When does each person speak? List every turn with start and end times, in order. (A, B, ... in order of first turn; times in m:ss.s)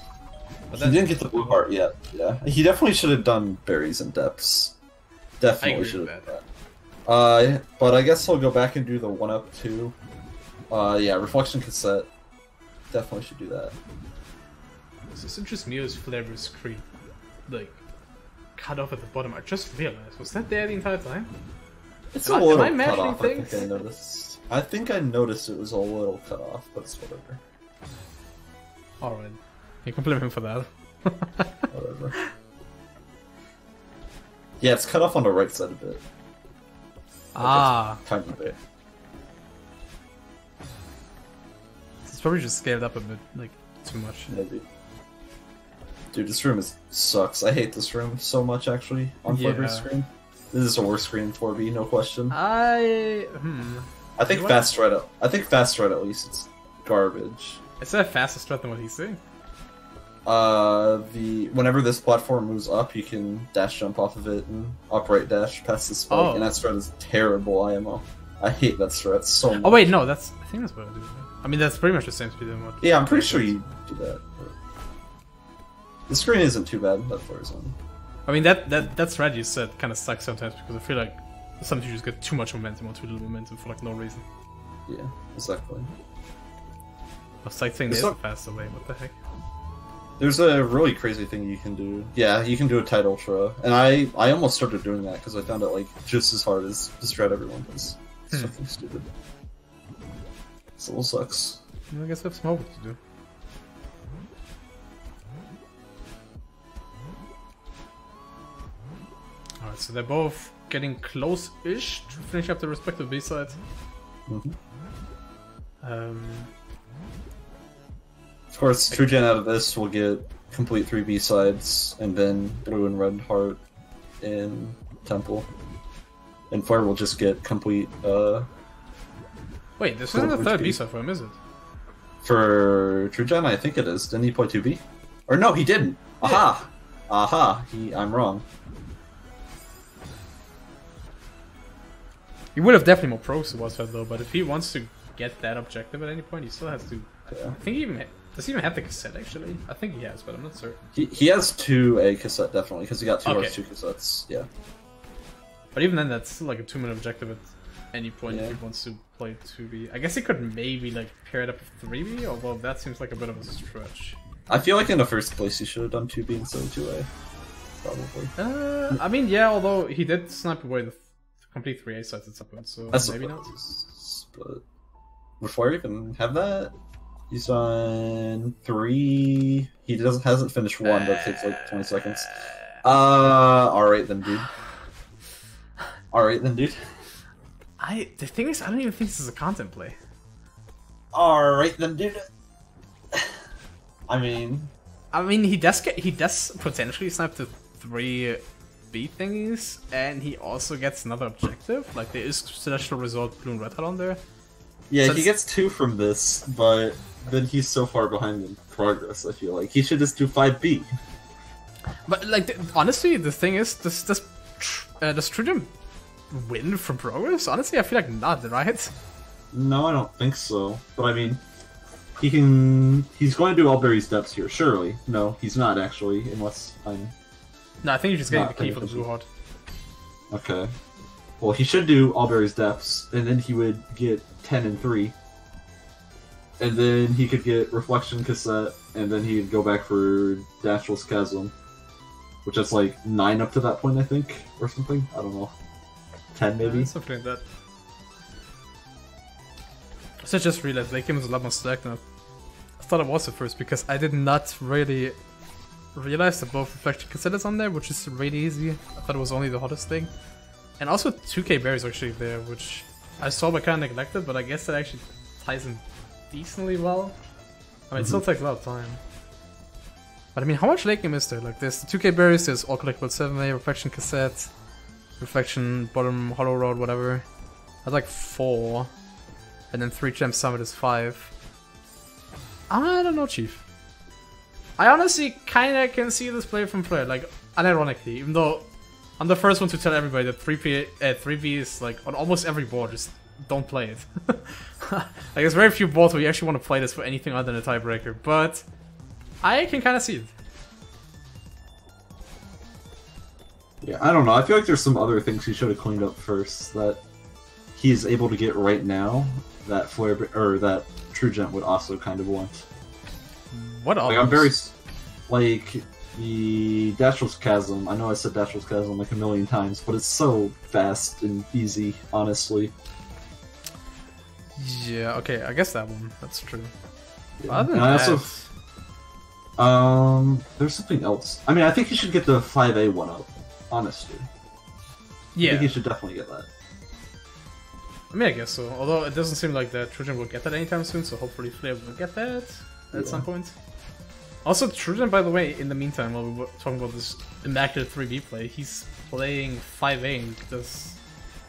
0:00.7-0:01.6 A
0:00.7-0:04.8 B
0:05.4-0:06.4 B
0:05.6-0:06.3 A
0:07.0-0:09.9 B
0:10.7-0:12.1 B
0:12.9-0:13.7 B
0:15.1-0:16.8 A
0:17.5-0:17.8 A
0:18.6-0:21.3 A
0:22.1-0:27.4 B
0:22.2-0:23.7 A
0:29.0-0:32.3 A
0:31.7-0:32.2 B
0:34.6-0:36.0 B
0:37.3-0:38.0 A
0:37.4-0:38.6 B
0:42.0-0:44.3 A
0:44.3-0:44.6 B
0:46.1-0:52.3 B
0:49.3-0:49.9 A
0:52.3-0:54.7 A
0:54.2-0:57.6 B
0:57.8-0:59.2 A
1:00.2-1:09.9 B
1:06.1-1:06.5 A
1:09.5-1:13.5 A
1:12.8-1:14.5 B
1:16.1-1:17.8 B
1:18.2-1:24.2 A
1:24.9-1:25.9 B
1:27.4-1:29.1 A
1:27.9-1:28.1 B
1:30.2-1:39.1 B
1:40.8-1:41.6 B
1:41.9-1:43.0 A
1:49.6-1:53.6 A
1:54.3-1:54.6 B
1:55.8-1:56.5 A
1:58.5-2:03.6 B
2:04.2-2:05.5 B
2:06.5-2:08.5 B
2:09.8-2:11.4 A
2:10.1-2:10.8 B
2:12.2-2:18.4 B
2:22.5-2:30.8 A
2:27.3-2:27.6 B
2:30.9-2:34.5 B
2:33.2-2:33.6 A
2:35.7-2:44.2 A
2:38.3-2:38.6 B
2:44.5-2:47.1 B
2:47.8-2:48.3 B
2:48.4-2:53.5 A
2:52.9-2:54.6 B
2:55.4-2:56.7 B
2:57.3-3:04.5 B
3:00.8-3:02.5 A
3:06.1-3:06.9 B
3:07.8-3:10.0 A
3:11.1-3:12.3 B
3:13.1-3:13.4 B
3:14.1-3:14.7 B
3:15.1-3:24.2 A
3:24.9-3:30.9 B
3:25.0-3:25.3 A
3:32.0-3:35.7 A
3:36.3-3:38.9 A
3:39.5-3:41.4 B
3:42.2-3:47.1 B
3:47.8-3:49.2 A
3:48.3-3:49.0 B
3:50.3-3:50.7 B
3:51.4-3:55.1 B
3:56.6-4:01.5 B
4:02.4-4:05.5 B
4:06.3-4:06.9 B
4:06.6-4:07.4 A
4:10.2-4:12.0 A
4:12.8-4:15.2 A
4:15.9-4:20.1 A
4:20.8-4:27.2 A
4:27.9-4:29.0 A
4:30.3-4:34.5 A
4:35.2-4:37.2 A
4:37.8-4:38.9 A
4:39.7-4:41.3 A
4:42.7-4:43.6 A
4:44.8-4:58.6 A
4:59.4-5:00.3 A
5:03.8-5:07.0 B
5:07.8-5:12.7 B
5:13.5-5:14.5 A
5:14.0-5:14.7 B
5:15.3-5:22.7 B
5:24.6-5:26.7 A
5:27.4-5:28.3 B
5:27.5-5:28.5 A
5:29.6-5:34.3 B
5:35.3-5:35.7 A
5:35.4-5:36.5 B
5:38.1-5:43.6 A
5:42.9-5:43.2 B
5:44.4-5:51.0 A